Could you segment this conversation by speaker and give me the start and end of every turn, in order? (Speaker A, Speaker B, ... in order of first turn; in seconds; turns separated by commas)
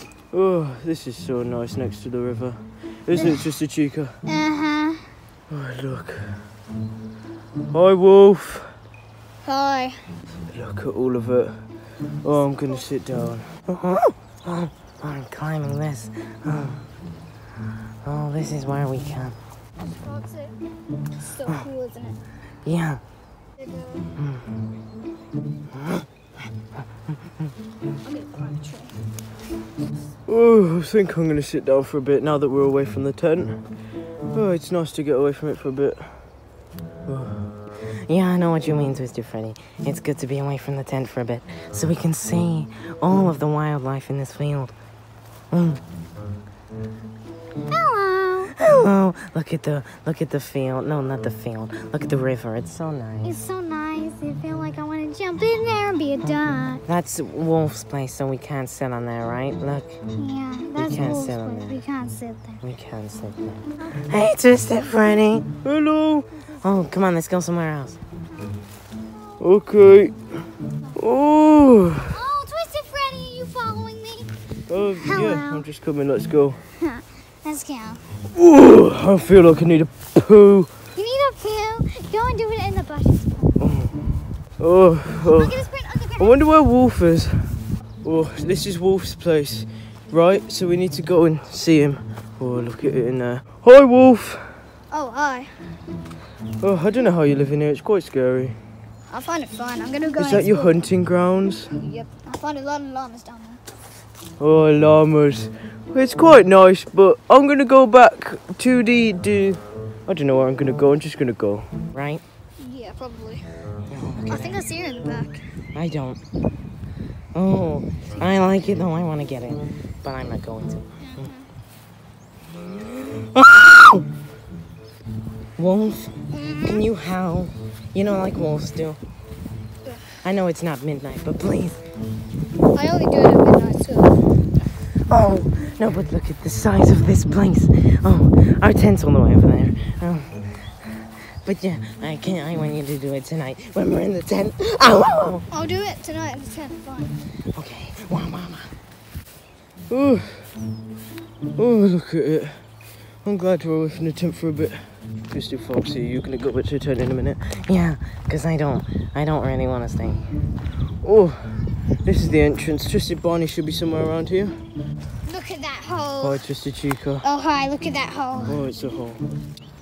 Speaker A: 0.3-4.2, Speaker B: 4.2-5.1, Speaker A: 5.5-6.4, Speaker A: 7.7-8.7, Speaker B: 9.4-10.0, Speaker A: 10.5-11.6, Speaker A: 12.2-13.5, Speaker C: 13.7-16.9, Speaker C: 18.0-19.4, Speaker B: 19.8-20.6, Speaker B: 21.2-22.2, Speaker C: 22.6-23.0, Speaker B: 23.7-24.0, Speaker C: 24.2-24.6, Speaker C: 25.7-26.1, Speaker B: 28.0-28.9, Speaker A: 30.2-33.6, Speaker A: 34.3-36.2, Speaker A: 37.0-37.5, Speaker C: 38.0-44.7, Speaker C: 45.5-45.8, Speaker B: 47.7-48.5, Speaker C: 48.5-53.4, Speaker B: 53.2-56.8, Speaker C: 56.9-60.0, Speaker B: 60.1-62.6, Speaker C: 60.8-61.8, Speaker C: 62.6-65.6, Speaker A: 65.6-66.3, Speaker C: 66.6-68.0, Speaker A: 69.4-70.3, Speaker A: 70.9-72.2, Speaker B: 72.1-74.3, Speaker A: 74.7-76.6, Speaker B: 75.0-75.6, Speaker B: 76.8-78.0, Speaker A: 78.3-80.7, Speaker B: 81.0-83.5, Speaker A: 83.6-84.0, Speaker A: 84.6-85.6, Speaker B: 85.2-86.3, Speaker A: 86.2-94.6, Speaker B: 94.9-95.6, Speaker A: 96.6-98.6, Speaker B: 99.1-100.7, Speaker A: 100.2-101.7, Speaker B: 101.7-103.6, Speaker A: 104.4-111.7, Speaker C: 111.9-112.2, Speaker B: 112.6-113.5, Speaker C: 113.9-114.6, Speaker B: 114.3-115.4, Speaker C: 115.7-116.2, Speaker C: 117.3-121.3, Speaker B: 121.0-121.4, Speaker C: 122.6-124.0, Speaker C: 125.6-129.0, Speaker B: 126.3-126.9, Speaker C: 130.2-131.8, Speaker B: 132.7-134.3, Speaker C: 135.1-145.4, Speaker B: 145.5-147.2, Speaker C: 147.5-148.7, Speaker A: 149.9-150.5, Speaker A: 151.5-152.7, Speaker A: 153.2-157.4, Speaker C: 157.5-160.3, Speaker A: 161.0-164.6, Speaker B: 165.2-166.4, Speaker A: 166.2-167.3, Speaker B: 167.2-168.6, Speaker A: 168.4-169.2